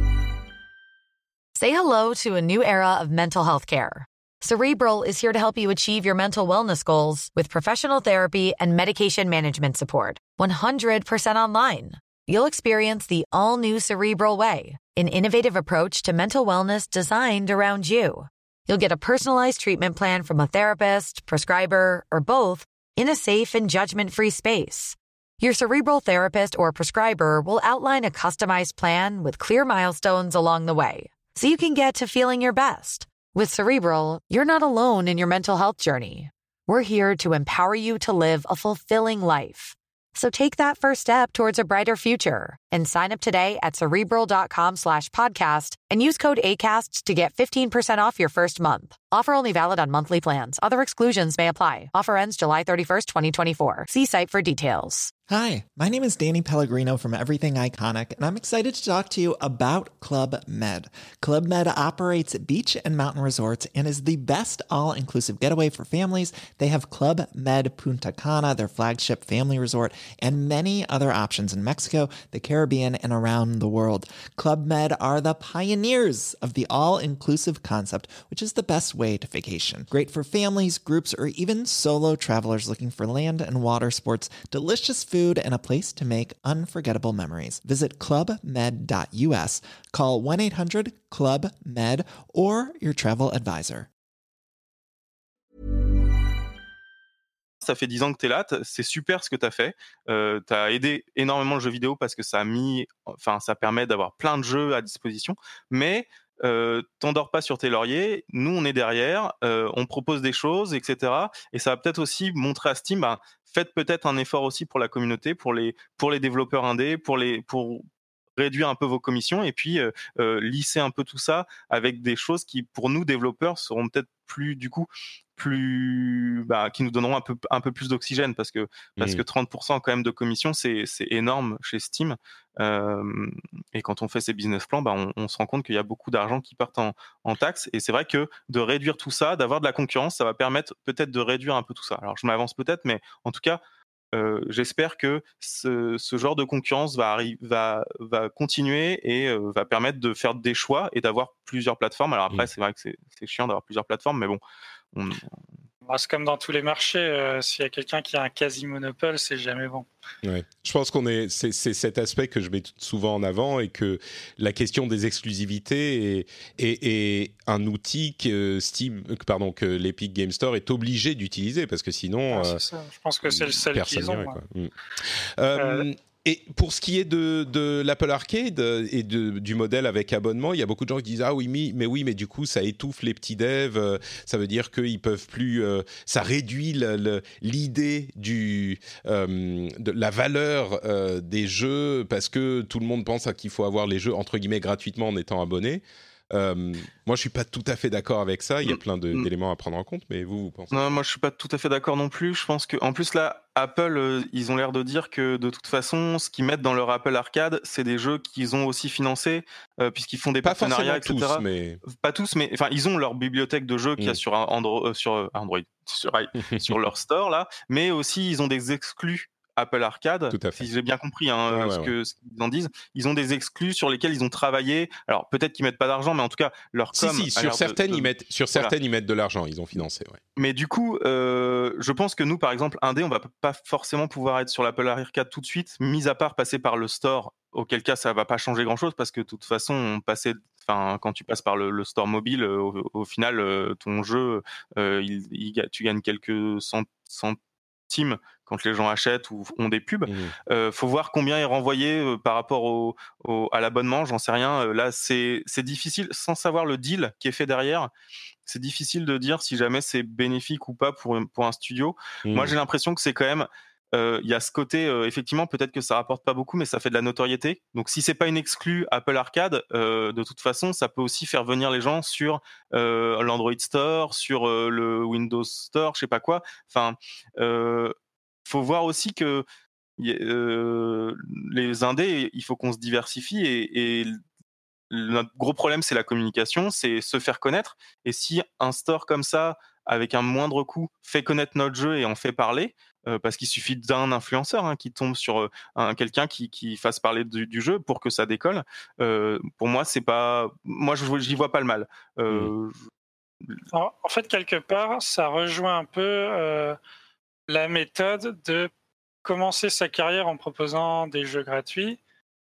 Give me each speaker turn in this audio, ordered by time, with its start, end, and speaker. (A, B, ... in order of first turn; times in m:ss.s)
0:01.6-0:55.1 A
0:55.3-1:33.9 B
1:37.6-1:57.8 C
1:58.4-2:23.6 C
2:24.1-2:34.4 C
2:34.9-2:35.4 C
2:35.9-2:39.9 D
2:40.2-2:52.6 E
2:52.3-2:54.4 D
2:53.2-3:20.9 E
2:55.5-2:55.8 D
3:18.6-3:19.3 C
3:20.7-3:48.7 C
3:30.4-3:31.8 E
3:36.5-3:36.8 E
3:40.3-3:40.6 E
3:41.5-3:41.9 E
3:46.9-3:50.2 E
3:50.4-4:07.4 C
4:07.9-4:17.9 C
4:10.0-4:10.3 E
4:18.4-4:37.9 C
4:22.2-4:22.5 E
4:38.4-4:39.4 C
4:40.0-4:44.2 C
4:44.9-5:02.8 C
5:03.7-5:06.8 D
5:07.5-5:08.7 D
5:09.2-5:12.0 D